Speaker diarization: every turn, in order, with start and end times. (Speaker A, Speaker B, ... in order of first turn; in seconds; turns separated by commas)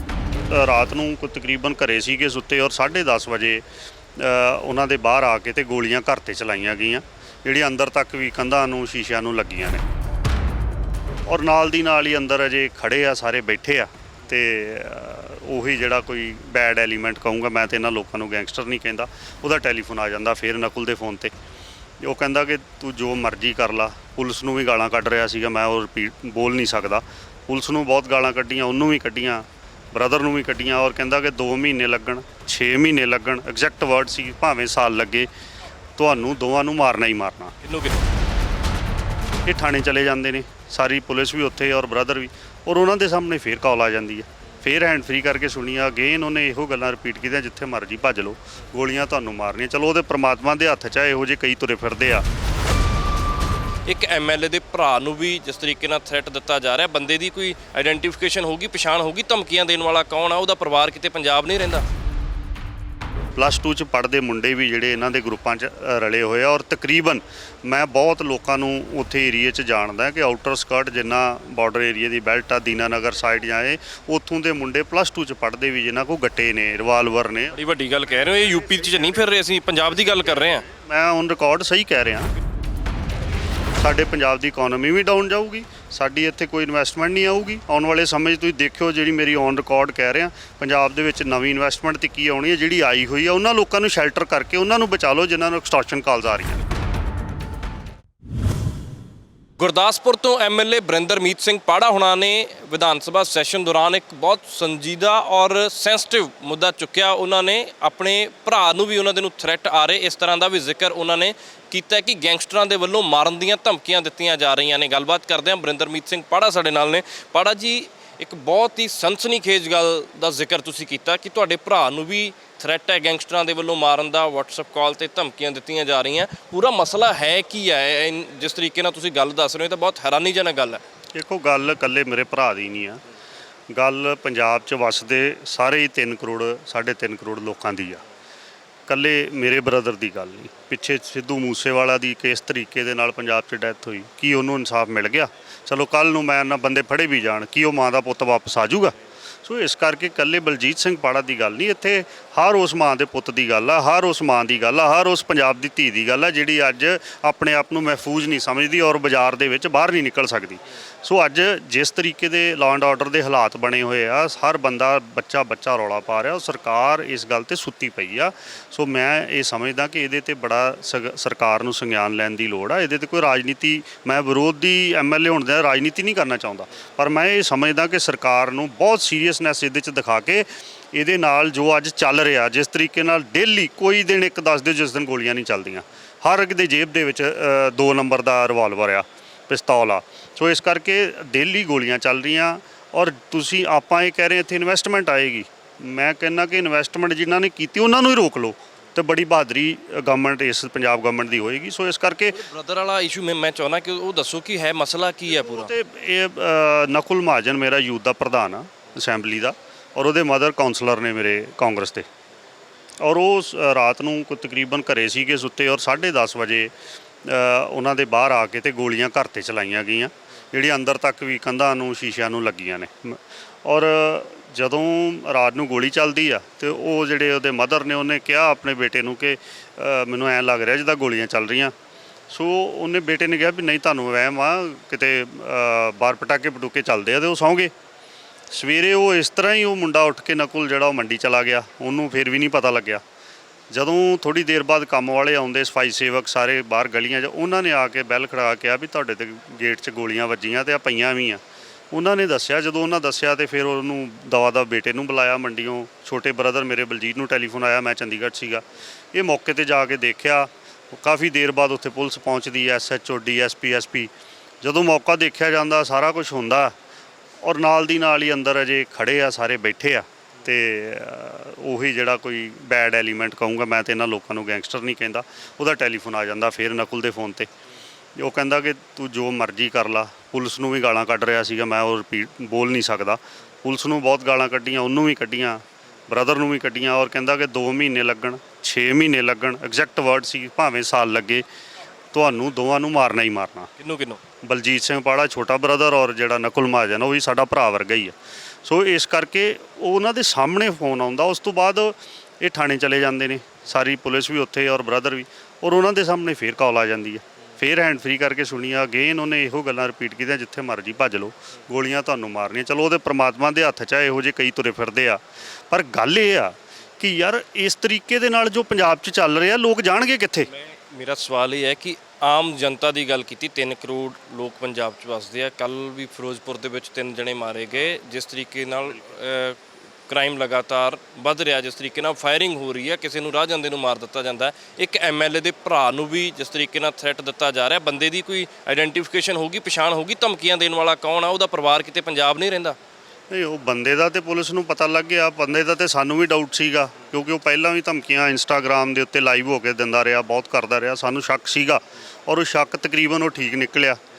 Speaker A: 0.5-3.6, Speaker A: 4.2-9.8, Speaker A: 11.3-21.3, Speaker A: 22.0-35.3, Speaker A: 36.0-37.5, Speaker B: 37.6-38.0, Speaker A: 39.5-52.2, Speaker B: 53.9-61.9, Speaker A: 63.4-77.5, Speaker B: 77.5-80.7, Speaker A: 80.7-82.3, Speaker A: 83.8-96.6, Speaker B: 99.6-130.8, Speaker A: 131.2-133.0, Speaker A: 133.7-138.0, Speaker A: 138.9-202.4, Speaker B: 202.3-205.7, Speaker A: 205.3-212.1, Speaker A: 213.0-216.7, Speaker A: 217.2-231.7, Speaker A: 232.3-237.7, Speaker A: 238.5-243.0, Speaker A: 243.7-264.1, Speaker A: 264.6-266.7, Speaker A: 267.4-277.5, Speaker A: 278.2-291.4, Speaker A: 292.1-293.7, Speaker B: 293.8-294.2, Speaker A: 294.4-320.5, Speaker B: 320.5-329.6, Speaker B: 330.1-342.8, Speaker A: 343.3-354.0